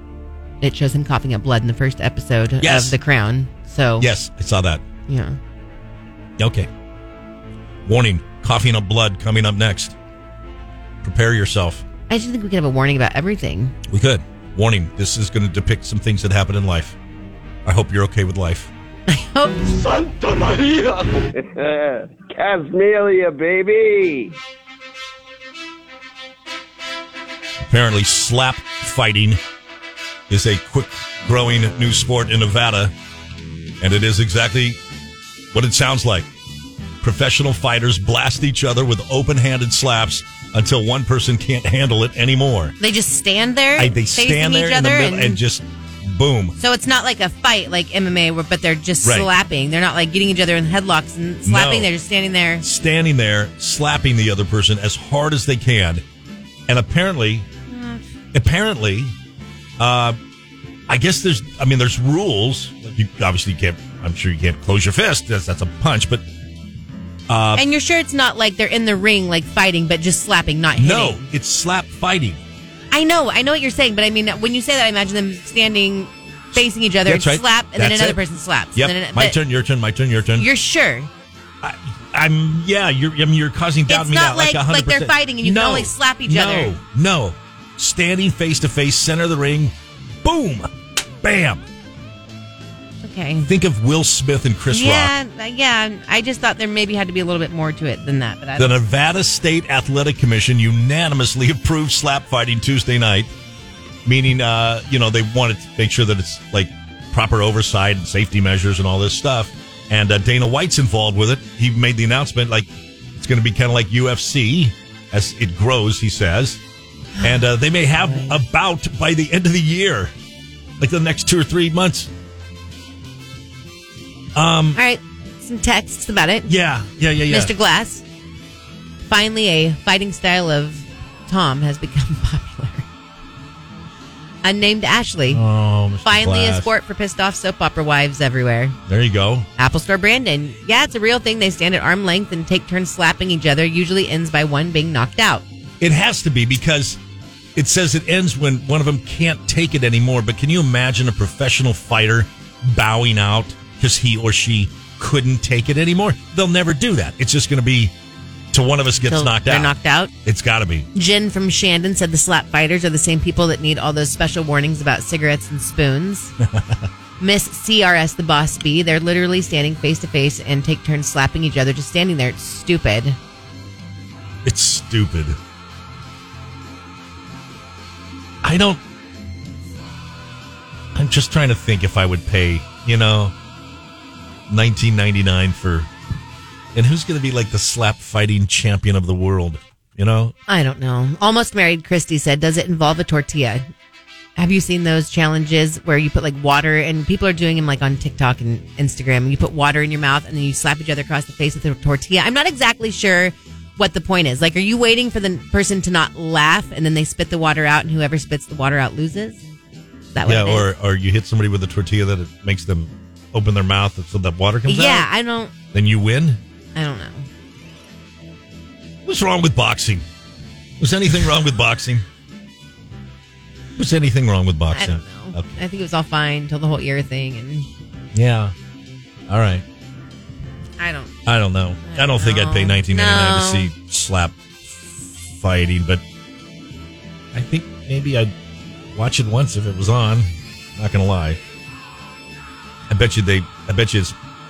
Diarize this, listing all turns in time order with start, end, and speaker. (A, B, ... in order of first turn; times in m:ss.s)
0:00.6-0:04.1 A
0:02.6-0:03.0 B
0:04.0-0:04.8 B
0:05.1-0:05.4 A
0:06.4-0:06.7 B
0:07.9-0:09.9 B
0:11.0-0:11.8 B
0:12.1-0:13.8 A
0:13.9-0:17.0 B
0:17.6-0:18.7 B
0:19.1-0:20.0 A
0:20.1-0:24.3 C
0:27.7-0:29.4 B
0:30.3-0:32.9 B
0:33.8-0:34.8 B
0:35.5-0:36.3 B
0:37.0-0:42.8 B
0:42.8-0:45.4 A
0:43.8-0:46.6 B
0:46.6-0:52.6 A
0:49.0-0:49.3 B
0:51.4-0:51.9 B
0:52.6-0:56.0 B
0:56.7-0:57.5 B
0:57.7-0:58.0 A
0:58.3-0:59.1 B
0:59.8-1:00.2 B
1:00.9-1:06.2 B
1:07.3-1:07.6 B
1:07.5-1:11.3 A
1:10.8-1:12.4 B
1:12.9-1:19.4 A
1:16.5-1:18.2 B
1:18.8-1:20.5 B
1:20.4-1:21.1 A
1:21.6-1:30.7 B
1:23.9-1:26.8 A
1:31.2-1:31.6 B
1:33.0-1:33.5 A
1:33.4-1:35.1 B
1:34.7-1:38.8 A
1:38.6-1:43.3 B
1:44.0-1:56.6 B
1:57.2-2:00.1 B
2:00.8-2:02.1 B
2:04.4-2:04.8 B
2:04.7-2:06.5 A
2:06.5-2:07.6 B
2:07.3-2:08.0 A
2:09.1-2:12.8 A
2:14.4-2:15.4 A
2:15.3-2:16.7 B
2:16.0-2:18.8 A
2:18.9-2:19.5 B
2:19.6-2:25.4 A
2:25.8-2:27.0 B
2:27.6-2:37.9 B
2:38.5-2:40.9 B
2:39.0-2:40.1 A
2:40.9-2:46.4 A
2:46.4-2:46.8 B
2:47.2-2:53.2 A
2:54.4-2:55.4 B
2:58.4-2:58.8 B
3:00.9-3:03.3 B
3:04.5-3:05.9 B
3:06.8-3:10.3 B
3:10.5-3:13.6 A
3:14.4-3:29.4 A
3:30.1-3:30.7 A
3:30.2-3:35.1 B
3:34.6-3:35.5 A
3:35.7-3:36.4 B
3:36.8-3:37.3 A
3:39.0-3:40.0 B
3:40.8-3:42.0 B
3:43.8-3:45.6 B
3:44.7-3:47.7 A
3:48.1-3:48.5 B
3:49.3-3:49.6 B
3:50.8-3:51.2 A
3:51.2-3:56.0 B
3:51.8-3:53.7 A
3:57.3-3:58.3 B
3:58.9-4:01.4 B
4:02.9-4:04.1 B